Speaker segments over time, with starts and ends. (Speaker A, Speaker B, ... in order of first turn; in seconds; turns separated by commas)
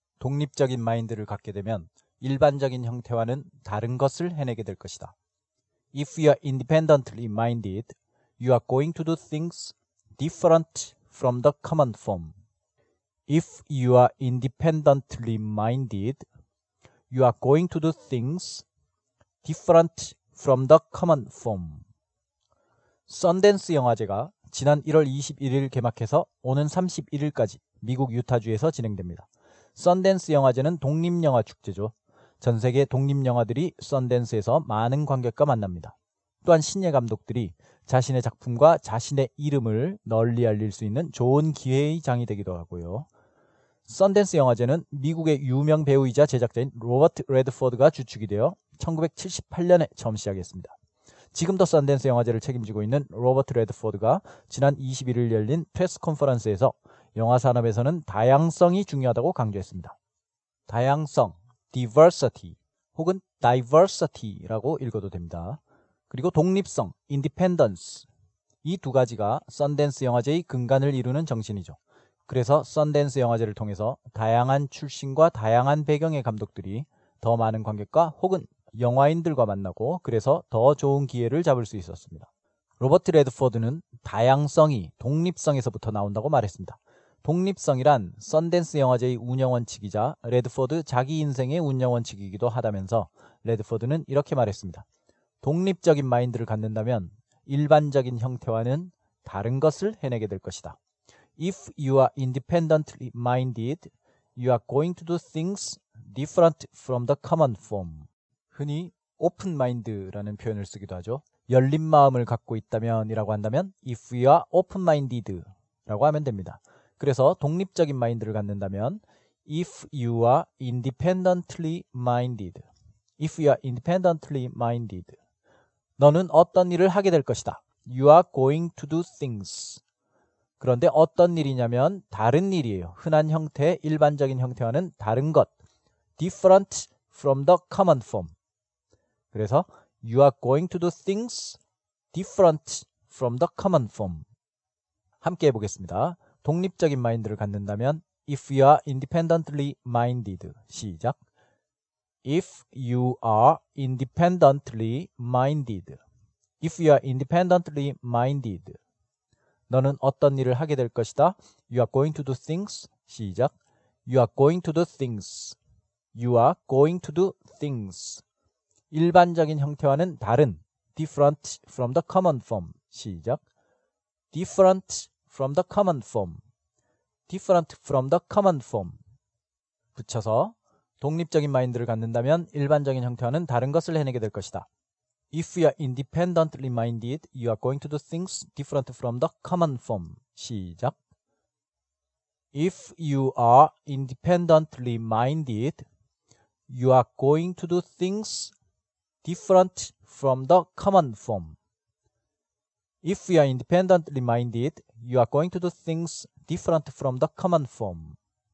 Speaker A: 0.2-5.2, Speaker A: 5.9-12.3, Speaker A: 13.3-16.2, Speaker A: 17.1-18.7, Speaker A: 19.4-21.8, Speaker A: 23.1-43.1, Speaker A: 43.9-50.8, Speaker A: 51.3-60.0, Speaker A: 60.7-68.1, Speaker A: 68.6-82.3, Speaker A: 82.8-94.9, Speaker A: 95.4-100.8, Speaker A: 101.4-122.7, Speaker A: 123.2-125.2, Speaker A: 126.0-129.8, Speaker A: 130.6-135.5, Speaker A: 136.2-138.3, Speaker A: 139.3-141.6, Speaker A: 142.1-144.2, Speaker A: 145.2-151.2, Speaker A: 152.2-156.0, Speaker A: 156.6-158.8, Speaker A: 159.7-163.5, Speaker A: 164.1-165.6, Speaker A: 166.2-168.2, Speaker A: 168.9-173.4, Speaker A: 174.3-176.4, Speaker A: 177.3-179.0, Speaker A: 179.9-184.7, Speaker A: 185.3-191.0, Speaker A: 192.5-195.9, Speaker A: 196.7-198.5, Speaker A: 199.2-201.6, Speaker A: 203.0-208.2